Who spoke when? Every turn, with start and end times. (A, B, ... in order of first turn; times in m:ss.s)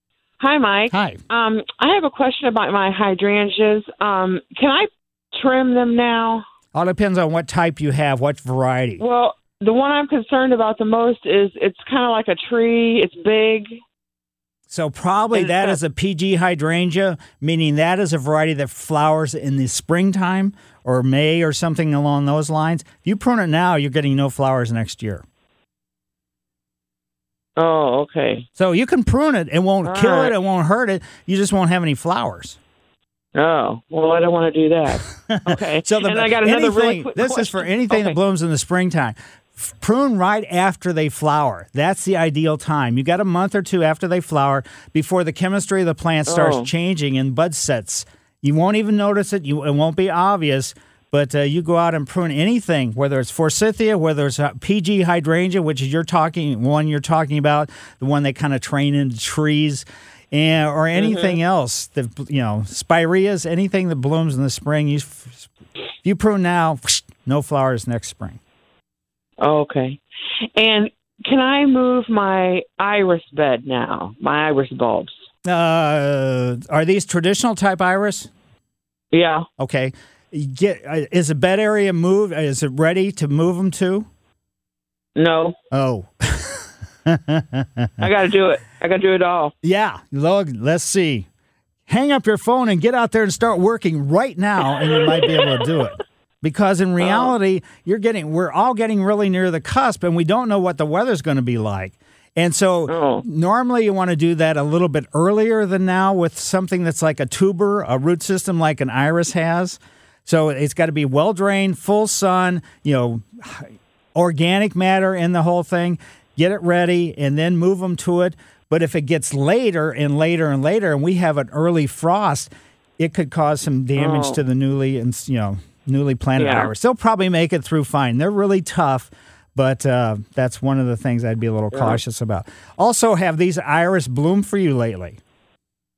0:00.4-0:06.4 A
0:00.9-0:01.2 B
0:06.7-0:09.0 B
0:09.0-0:13.8 A
0:14.7-0:25.2 B
0:15.3-0:15.7 A
0:27.6-0:28.4 A
0:28.6-0:32.6 B
0:29.8-0:30.3 A
0:33.3-0:38.2 A
0:35.3-1:05.5 B
0:46.3-0:46.7 A
1:00.9-1:01.4 A
1:06.0-1:08.4 B
1:09.4-1:10.0 A
1:10.6-1:15.2 A
1:15.4-1:18.3 B
1:19.1-1:19.4 A
1:19.6-1:24.1 B
1:25.2-1:25.6 A
1:25.7-1:28.0 B
1:28.0-1:29.5 A
1:29.6-1:31.3 B
1:31.9-2:15.2 B
1:37.0-1:37.3 A
1:42.9-1:43.2 A
2:04.0-2:04.4 A
2:06.4-2:06.7 A
2:11.7-2:12.0 A